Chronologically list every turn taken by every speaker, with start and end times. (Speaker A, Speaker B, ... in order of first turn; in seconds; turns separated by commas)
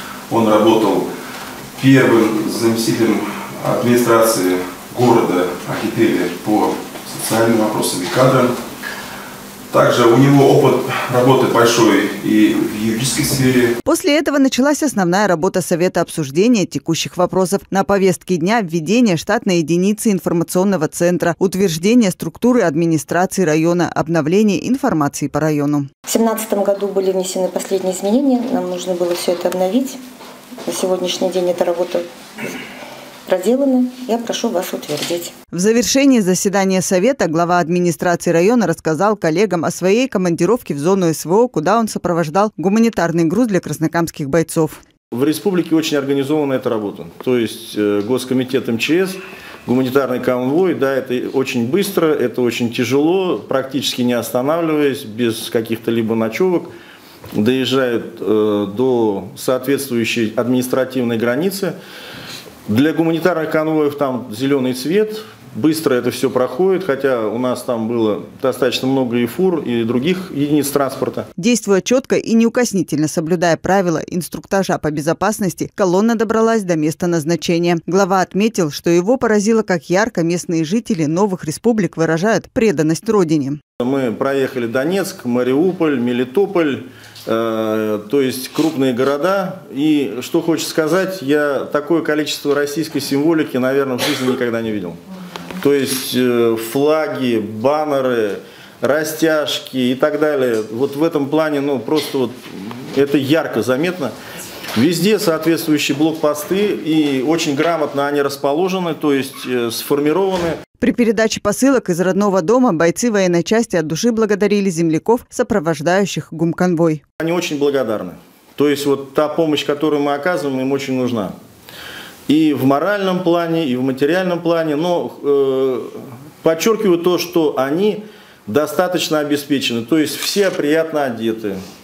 Speaker A: 0.3-1.1, Speaker A: 1.8-8.5, Speaker A: 9.7-13.8, Speaker B: 13.8-25.9, Speaker C: 26.1-30.0, Speaker C: 30.7-32.5, Speaker C: 33.3-35.3, Speaker B: 35.5-44.8, Speaker D: 45.1-56.7, Speaker D: 57.3-61.8, Speaker D: 62.7-71.3, Speaker B: 71.4-83.6, Speaker D: 83.8-95.0, Speaker D: 95.5-104.1, Speaker D: 104.8-110.6, Speaker B: 110.8-117.0, Speaker D: 117.2-121.4, Speaker D: 122.3-131.6